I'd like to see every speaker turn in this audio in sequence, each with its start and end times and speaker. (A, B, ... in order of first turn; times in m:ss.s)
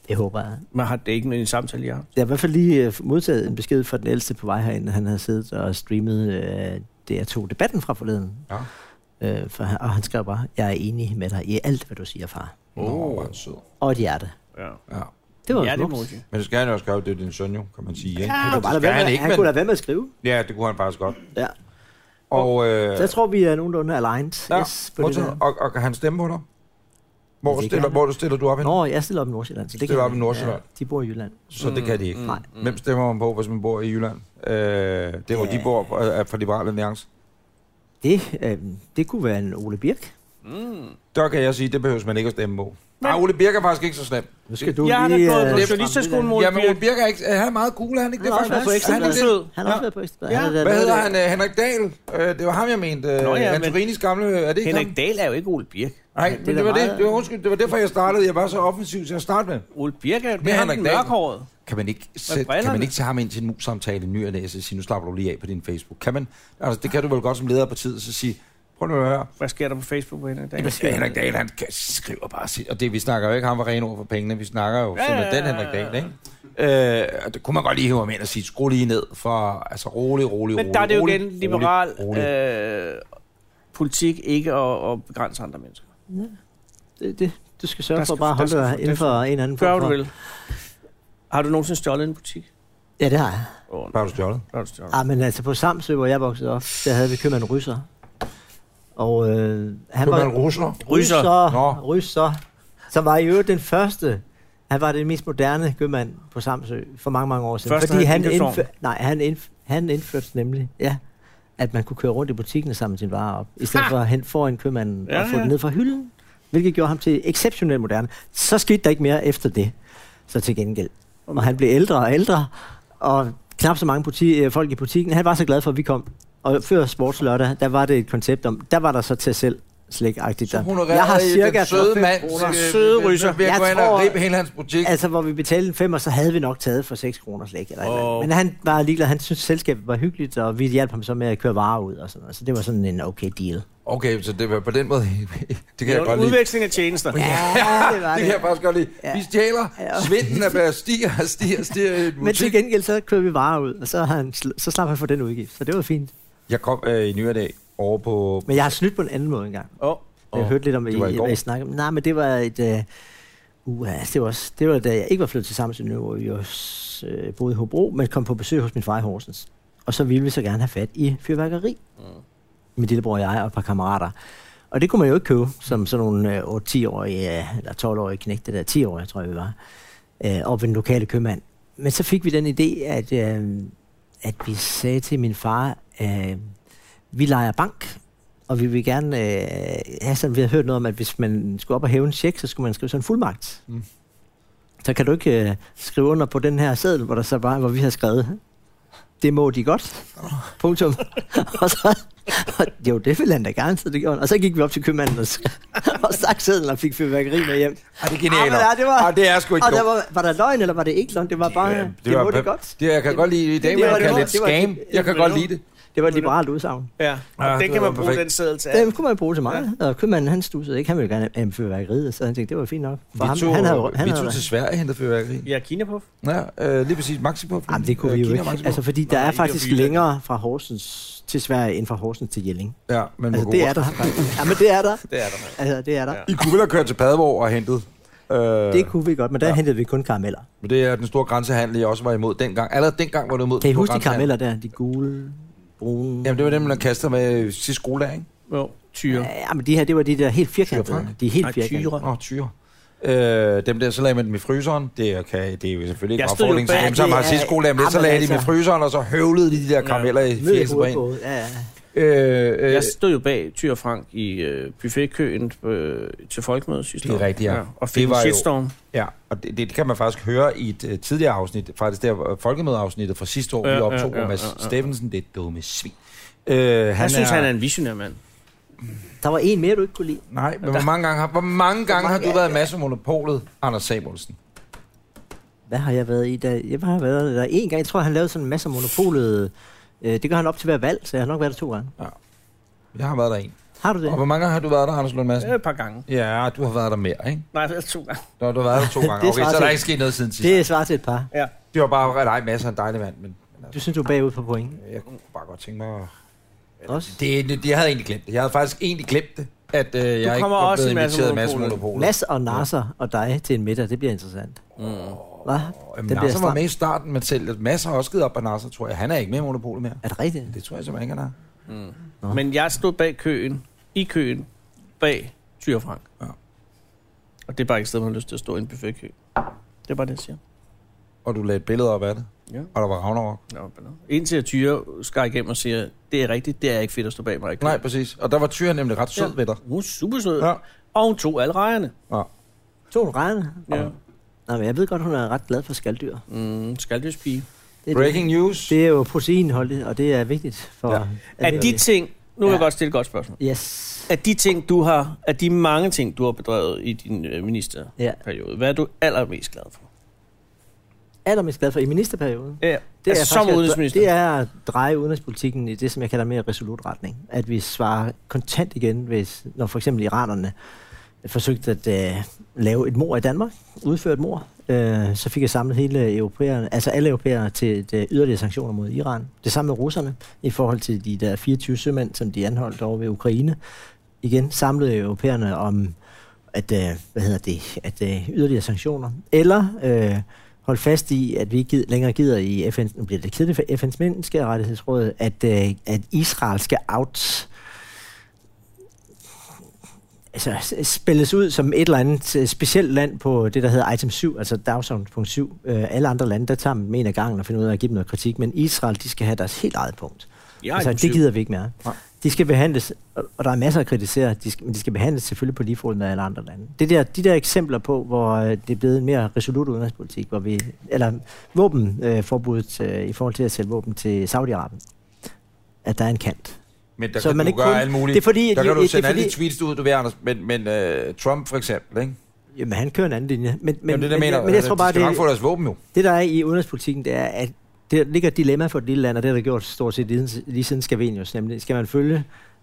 0:00.1-0:00.6 A
0:00.7-0:02.1 B
0:02.2-0:08.5 A
0:09.2-0:12.6 A
0:12.8-0:13.6 C
0:12.8-0:13.3 B
0:13.8-0:14.3 A
0:15.5-0:16.1 A
0:15.5-0:16.2 B
0:16.3-0:19.5 C
0:18.2-0:20.1 A
0:18.3-0:18.6 B
0:20.2-0:21.2 C
0:22.3-0:23.2 C
0:22.4-0:25.4 A
0:24.5-0:26.4 C
0:27.4-0:28.7 C
0:27.4-0:28.0 A
0:28.6-0:31.5 A
0:29.9-0:30.6 C
0:31.5-0:37.1 C
0:31.6-0:32.8 B
0:35.3-0:35.7 A
0:38.0-0:40.1 A
0:40.4-0:41.0 B
0:41.1-0:44.8 C
0:44.5-0:46.3 A
0:44.8-0:46.8 B
0:45.5-0:49.8 C
0:48.2-0:51.2 A
0:48.4-0:49.5 B
0:50.3-0:50.6 B
0:50.6-0:55.0 C
0:53.2-0:53.8 B
0:54.6-0:56.0 B
0:56.2-0:59.7 C
0:56.3-0:57.3 A
0:59.8-1:01.5 B
1:00.4-1:01.1 C
1:01.7-1:09.3 C
1:02.3-1:02.9 B
1:09.4-1:11.1 B
1:10.6-1:10.9 A
1:10.6-1:22.3 C
1:15.0-1:16.1 B
1:20.6-1:23.0 B
1:23.7-1:25.8 B
1:27.0-1:30.0 A
1:28.0-1:30.1 B
1:31.3-1:32.5 B
1:33.0-1:33.5 A
1:33.7-1:34.0 B
1:33.9-1:34.4 C
1:34.5-1:35.0 B
1:34.9-1:37.8 A
1:39.0-1:42.4 A
1:40.0-1:40.8 C
1:40.9-1:41.4 B
1:41.5-1:41.8 C
1:42.9-1:51.0 A
1:47.7-1:48.7 B
1:51.6-1:59.7 A
1:55.1-1:55.5 B
2:00.3-2:12.7 A
2:10.5-2:15.0 C
2:12.2-2:13.4 B
2:13.4-2:14.2 A
2:14.8-2:23.6 A
2:17.8-2:18.3 B
2:23.9-2:26.4 C
2:25.8-2:27.2 B
2:27.1-2:32.6 C
2:27.1-2:28.5 A
2:29.8-2:30.6 A
2:32.2-2:36.1 A
2:36.5-2:38.8 C
2:38.5-2:39.7 A
2:39.8-2:40.5 B
2:40.3-2:42.9 A
2:40.9-2:41.4 C
2:43.7-2:51.8 A
2:52.8-2:54.1 A
2:54.7-2:59.5 A
3:00.2-3:06.5 A
3:07.1-3:13.6 A
3:14.8-3:18.4 A
3:19.2-3:35.2 A
3:28.0-3:29.9 C
3:31.6-3:35.6 C
3:33.7-3:34.3 B
3:34.9-3:35.5 B
3:36.0-3:36.9 A
3:36.1-3:36.3 B
3:37.0-3:39.0 B
3:37.4-3:38.2 C
3:38.7-3:44.5 A
3:43.2-3:45.5 C
3:45.4-3:46.1 B
3:46.2-3:48.8 C
3:47.7-3:52.8 A
3:49.1-3:50.0 B
3:52.9-3:54.4 C
3:53.3-3:56.3 A
3:55.1-3:55.6 B
3:56.3-3:59.6 C
3:58.7-4:00.5 A
4:00.6-4:04.3 C
4:03.6-4:06.7 A
4:06.2-4:08.3 C
4:08.5-4:09.3 B
4:09.1-4:12.0 A
4:10.7-4:11.1 C
4:11.4-4:12.1 B
4:12.0-4:21.0 C
4:16.2-4:17.1 B
4:16.7-4:18.5 A
4:19.8-4:20.1 B
4:20.4-4:21.7 A
4:21.9-4:23.0 C
4:22.7-4:28.7 B
4:27.0-4:37.5 C
4:33.6-4:34.8 B
4:37.0-4:38.2 B
4:39.2-4:40.2 A
4:40.3-4:44.4 C
4:42.0-4:42.5 A
4:45.7-4:51.9 A
4:52.9-4:55.6 C
4:53.8-4:54.2 A
4:55.4-4:56.0 B
4:56.1-4:57.5 C
4:57.5-4:58.3 B
4:58.4-5:00.6 C
4:58.7-4:59.9 A
5:00.4-5:01.3 A
5:01.7-5:03.7 C
5:03.7-5:04.8 A
5:04.8-5:06.1 C
5:06.8-5:12.7 C
5:06.9-5:07.2 A
5:10.2-5:11.9 B
5:11.9-5:14.6 A
5:14.8-5:15.2 B
5:15.4-5:21.3 C
5:15.4-5:16.6 A
5:20.0-5:20.6 A
5:21.7-5:24.5 B
5:25.0-5:26.0 B
5:27.5-5:30.4 B
5:31.2-5:33.4 C
5:33.5-5:37.8 B
5:37.6-5:39.6 C
5:39.2-5:41.9 B
5:42.9-5:43.9 A
5:44.5-5:46.2 A
5:46.3-5:47.5 B
5:47.9-5:51.8 A
5:47.9-5:48.8 C
5:50.9-5:51.6 C
5:51.4-5:53.4 B
5:53.4-5:54.1 A
5:54.1-5:59.9 B
6:01.2-6:10.5 A
6:02.6-6:04.1 B
6:11.2-6:23.6 A
6:24.2-6:26.0 A
6:26.5-6:37.5 A
6:40.3-7:04.8 A
6:50.6-6:51.2 B
7:05.8-7:06.6 A
7:07.0-7:12.2 C
7:07.2-7:09.4 A
7:12.6-7:15.3 A
7:13.9-7:15.8 C
7:15.9-7:22.2 A